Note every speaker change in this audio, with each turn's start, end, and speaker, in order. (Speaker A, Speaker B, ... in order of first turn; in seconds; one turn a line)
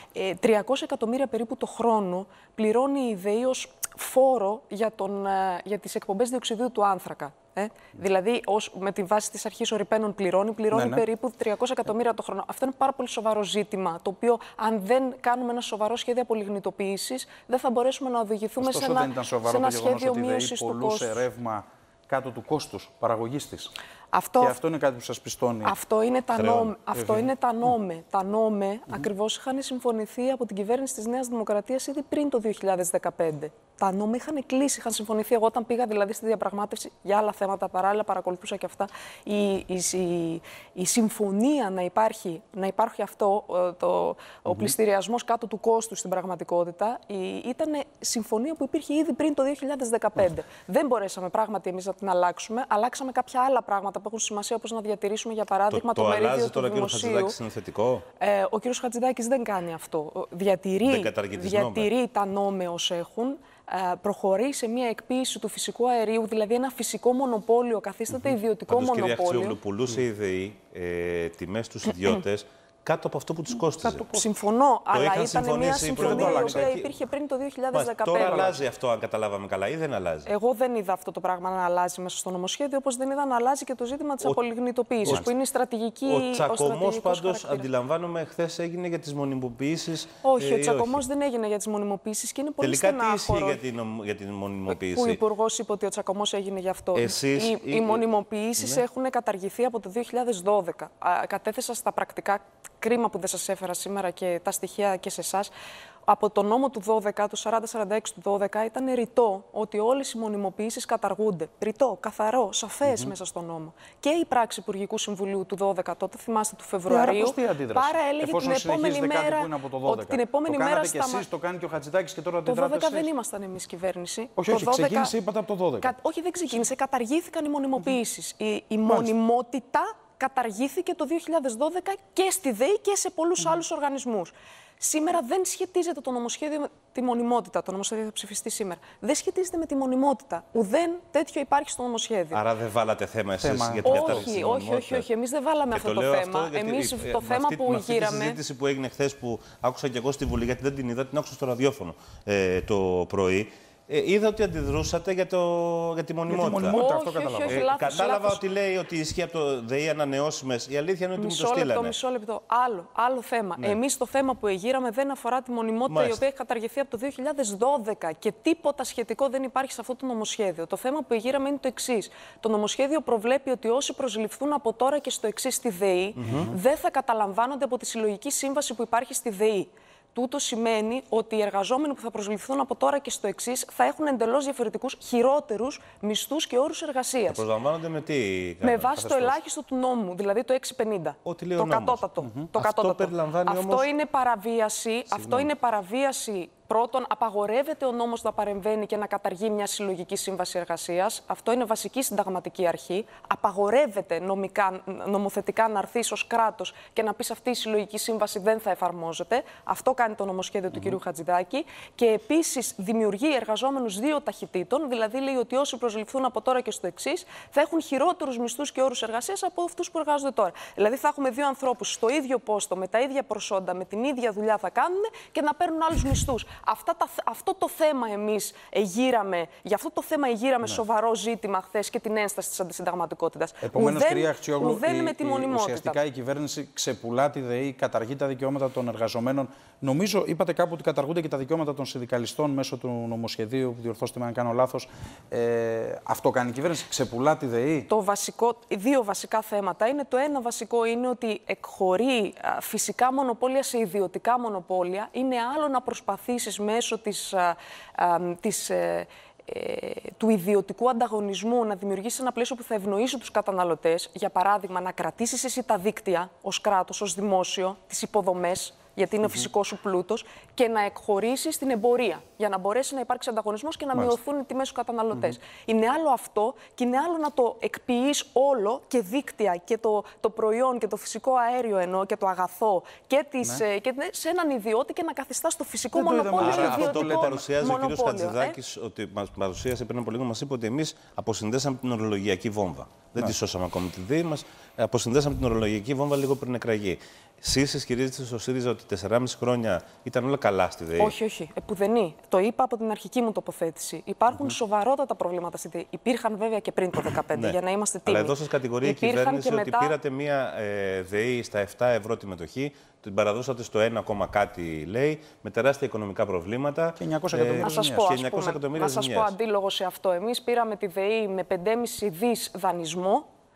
Speaker A: 0.1-21.2
Speaker B: 10.7-11.1
Speaker B: 18.6-23.7
Speaker A: 24.1-24.6
Speaker B: 24.4-25.8
Speaker A: 25.6-57.4
Speaker C: 26.3-26.8
Speaker B: 26.9-27.3
Speaker C: 55.7-58.0
Speaker A: 58.2-69.6
Speaker C: 60.8-61.9
Speaker C: 68.7-74.1
Speaker A: 73.9-78.6
Speaker C: 74.9-76.9
Speaker B: 76.0-76.8
Speaker C: 77.7-80.3
Speaker B: 78.1-78.5
Speaker A: 80.2-87.7
Speaker C: 86.0-91.0
Speaker A: 90.2-93.6
Speaker C: 92.6-95.2
Speaker A: 94.7-105.5
Speaker C: 96.9-98.0
Speaker A: 106.0-121.2
Speaker B: 112.9-113.1
Speaker B: 116.9-123.1
Speaker A: 122.5-125.1
Speaker B: 124.3-125.9
Speaker A: 125.8-142.4
Speaker B: 128.8-129.1
Speaker C: 142.3-145.1
Speaker B: 143.4-144.2
Speaker A: 143.8-148.4
Speaker C: 145.7-156.8
Speaker B: 156.3-157.7
Speaker A: 156.4-158.4
Speaker C: 157.4-161.9
Speaker A: 161.2-187.4
Speaker C: 165.9-166.2
Speaker C: 176.2-176.5
Speaker B: 176.2-176.6
Speaker C: 187.3-189.3
Speaker A: 188.6-236.0
Speaker C: 191.2-193.9
Speaker B: 192.2-192.5
Speaker C: 195.1-195.5
Speaker B: 233.6-247.9
Speaker A: 247.9-288.6
Speaker B: 285.9-287.4
Speaker C: 286.3-301.1
Speaker A: 301.0-309.9
Speaker C: 307.3-319.3
Speaker B: 317.0-318.1
Speaker A: 317.6-323.2